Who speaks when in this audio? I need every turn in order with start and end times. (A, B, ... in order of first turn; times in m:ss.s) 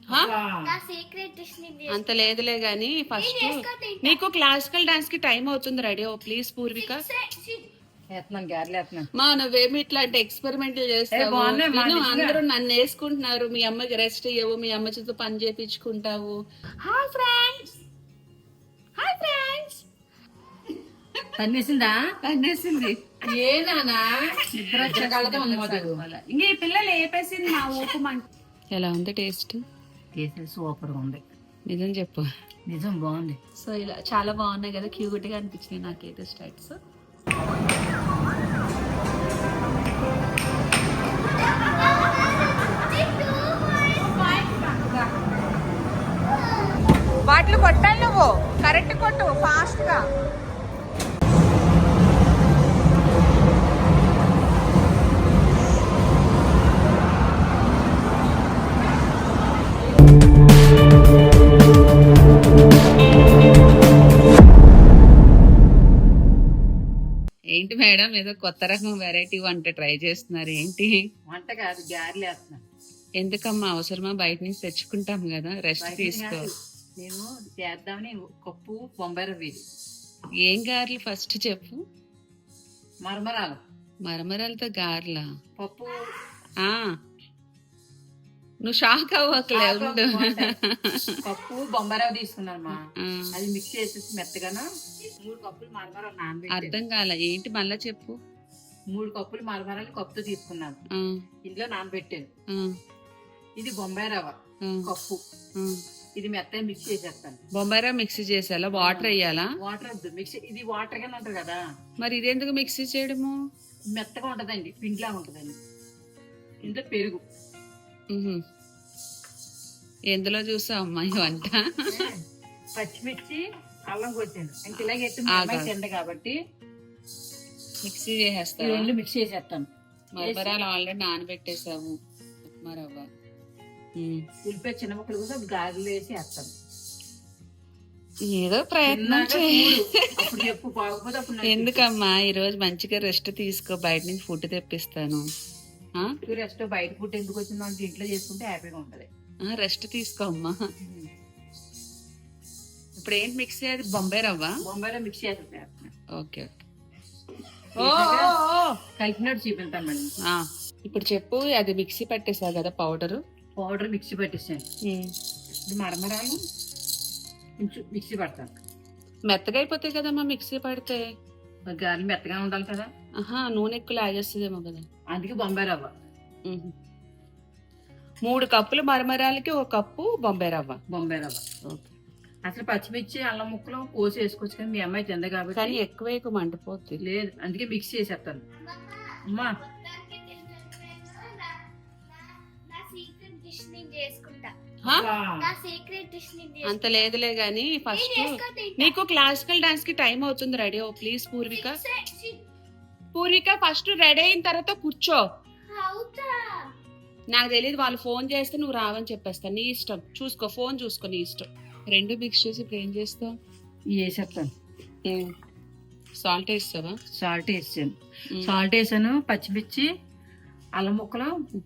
0:00.1-0:00.8 A
0:00.6-0:02.4 B
0:01.9-0:07.0 C
0:03.1-0:04.2 B
0:06.7-0:07.7 B
0:08.1-0:09.1 A
0:09.2-0:17.8 C
0:11.1-0:12.4 A
0:19.0-0:19.8 C
0:21.4-0:22.0 A
0:22.2-0:23.1 C
0:23.2-0:26.0 A
0:24.5-0:29.6 C
0:30.1-0:31.2 A
0:31.7-0:32.3 C
0:32.7-0:33.4 A
0:33.6-0:36.8 C
0:41.6-0:44.3 B
0:44.5-0:45.0 A
0:46.3-0:46.8 B
0:47.2-0:50.0 C
1:07.5-1:11.0 C
1:11.3-1:12.6 A
1:13.2-1:16.5 C
1:15.8-1:19.6 A
1:20.4-1:21.8 C
1:23.0-1:23.6 A
1:24.0-1:25.2 C
1:25.6-1:26.0 A
1:26.6-1:26.9 C
1:28.6-1:31.2 C
1:29.4-1:30.6 A
1:31.2-1:32.8 A
1:32.8-1:33.3 C
1:33.3-1:34.6 A
1:35.2-1:36.8 A
1:36.5-1:38.2 C
1:38.9-1:40.8 A
1:40.9-1:41.2 C
1:41.4-1:42.3 A
1:43.6-1:45.2 A
1:44.6-1:44.9 C
1:46.1-1:47.4 A
1:47.5-1:49.5 C
1:48.7-1:51.6 A
1:52.0-1:53.4 C
1:53.9-1:55.6 A
1:56.6-1:57.2 A
1:58.1-1:58.4 C
2:00.1-2:02.0 C
2:01.9-2:02.2 A
2:02.7-2:06.4 A
2:05.3-2:05.7 C
2:07.8-2:08.9 C
2:08.6-2:09.7 A
2:10.2-2:12.0 C
2:10.2-2:10.6 A
2:12.6-2:13.1 C
2:14.0-2:14.2 C
2:14.4-2:16.5 A
2:18.2-2:20.3 C
2:18.8-2:21.9 A
2:21.4-2:25.2 C
2:26.2-2:29.1 A
2:29.4-2:30.7 C
2:30.8-2:31.1 A
2:33.0-2:34.6 C
2:34.6-2:35.9 A
2:36.1-2:36.6 C
2:37.7-2:38.4 A
2:37.8-2:38.8 C
2:39.0-2:40.1 A
2:40.2-2:43.2 C
2:43.6-2:44.7 A
2:44.8-2:45.1 C
2:45.6-2:46.4 A
2:47.6-2:48.5 A
2:49.3-2:51.0 C
2:51.7-2:52.9 A
2:53.2-2:54.8 C
2:55.1-2:55.9 A
2:56.4-2:56.7 C
2:58.2-3:00.8 C
3:00.9-3:01.4 A
3:01.6-3:01.9 C
3:02.4-3:05.8 A
3:05.5-3:07.0 C
3:07.0-3:08.4 A
3:08.5-3:14.5 B
3:09.3-3:09.6 A
3:14.8-3:15.5 A
3:15.4-3:17.1 B
3:16.6-3:21.8 C
3:17.9-3:19.0 B
3:21.5-3:22.4 B
3:23.1-3:25.2 C
3:25.7-3:26.7 B
3:27.3-3:33.3 C
3:33.9-3:34.5 A
3:35.0-3:35.3 C
3:36.2-3:37.0 C
3:37.1-3:39.9 A
3:40.8-3:41.3 A